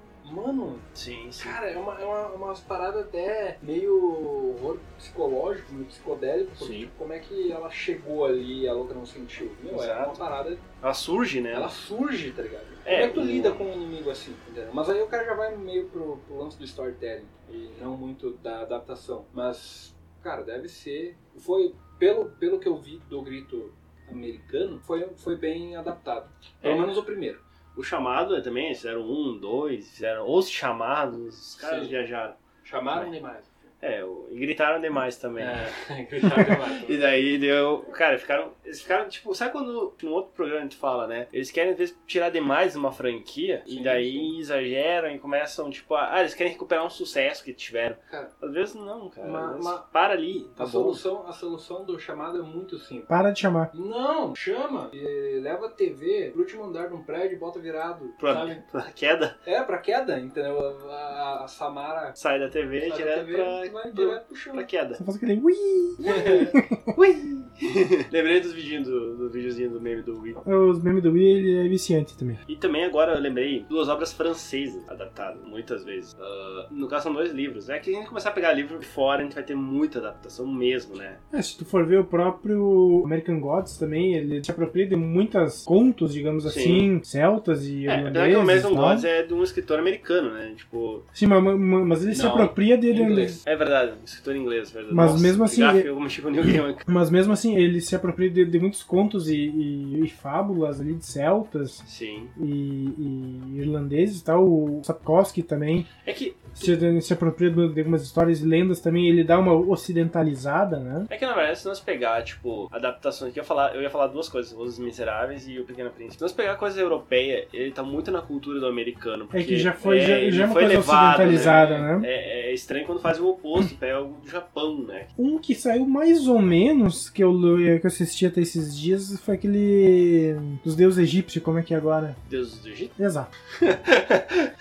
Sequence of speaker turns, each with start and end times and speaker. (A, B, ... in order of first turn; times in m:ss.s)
0:00.2-0:10.6 A
0:00.9-0:01.6 B
0:06.6-0:06.9 B
0:09.7-0:10.2 B
0:10.8-0:11.7 B
0:11.5-0:27.4 A
0:12.8-0:13.7 B
0:26.6-0:26.9 B
0:27.7-0:32.4 B
0:31.6-0:31.9 A
0:32.6-0:33.7 A
0:33.8-0:35.7 B
0:35.4-0:37.1 A
0:36.2-0:51.0 B
0:43.7-0:44.3 A
0:48.1-0:48.3 A
0:49.2-0:49.8 A
0:50.6-0:53.1 A
0:53.1-0:53.7 C
0:53.7-0:58.6 A
0:58.2-0:59.4 B
0:59.4-1:02.2 A
1:02.2-1:05.0 B
1:02.8-1:04.6 A
1:05.0-1:06.8 C
1:06.0-1:06.5 A
1:06.0-1:10.4 B
1:10.4-1:12.4 C
1:12.5-1:21.2 B
1:21.3-1:29.1 C
1:26.4-1:26.9 B
1:27.8-1:31.0 B
1:31.1-1:33.4 C
1:32.1-1:33.4 A
1:33.4-1:36.8 B
1:34.9-1:35.9 C
1:36.8-1:41.8 C
1:41.8-1:42.3 B
1:42.4-1:45.9 C
1:46.0-1:46.8 B
1:46.6-1:51.1 C
1:51.1-2:05.1 B
1:59.3-2:02.1 C
2:01.2-2:01.9 A
2:05.2-2:12.2 C
2:12.3-2:12.9 B
2:13.0-2:13.3 C
2:13.6-2:14.5 B